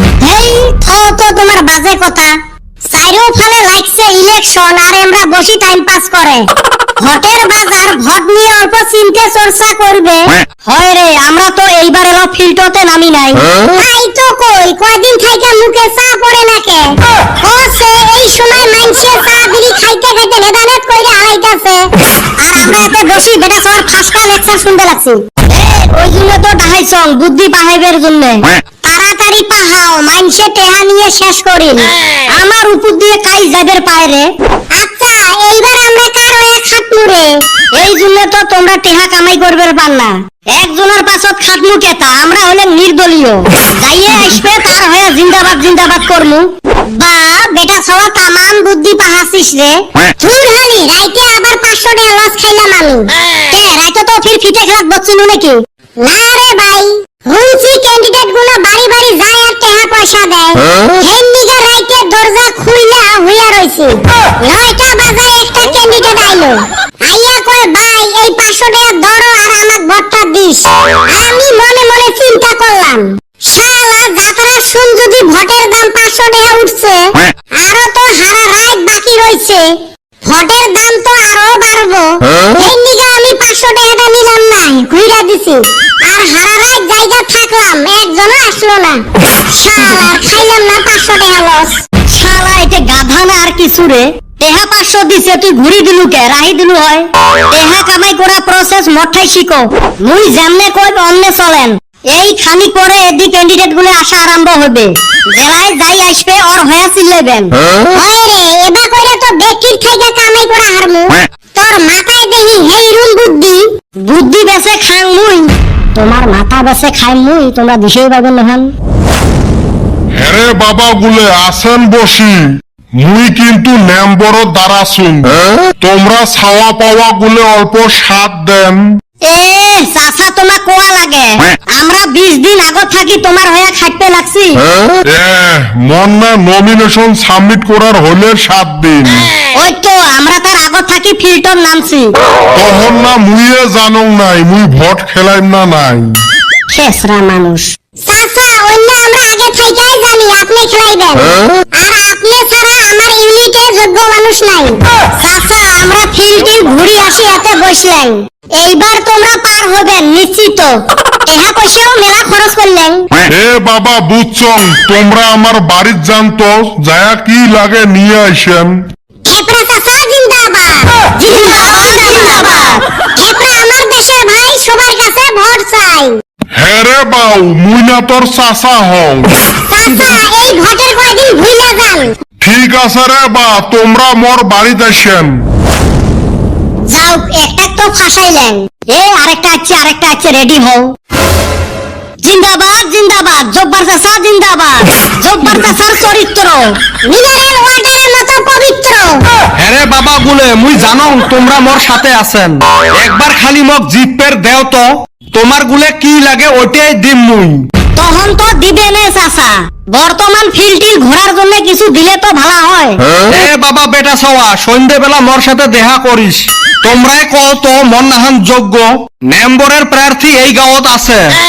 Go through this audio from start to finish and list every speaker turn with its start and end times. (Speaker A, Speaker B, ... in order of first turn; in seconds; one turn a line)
Speaker A: 0.2-2.3
Speaker A: 2.9-6.5
Speaker A: 7.0-16.9
Speaker A: 17.4-21.9
Speaker A: 22.4-79.7
Speaker A: 80.2-118.7
Speaker B: 120.2-122.5
Speaker B: 123.0-128.8
Speaker A: 129.2-134.6
Speaker B: 135.1-139.2
Speaker A: 139.6-142.1
Speaker B: 142.5-146.2
Speaker A: 146.7-151.2
Speaker A: 151.8-163.0
Speaker B: 163.3-168.8
Speaker A: 169.3-176.2
Speaker B: 176.5-179.3
Speaker A: 179.7-182.1
Speaker B: 182.4-185.4
Speaker A: 186.9-190.9
Speaker A: 192.2-199.2
Speaker C: 199.6-207.6
Speaker A: 208.0-213.0
Speaker C: 213.3-221.3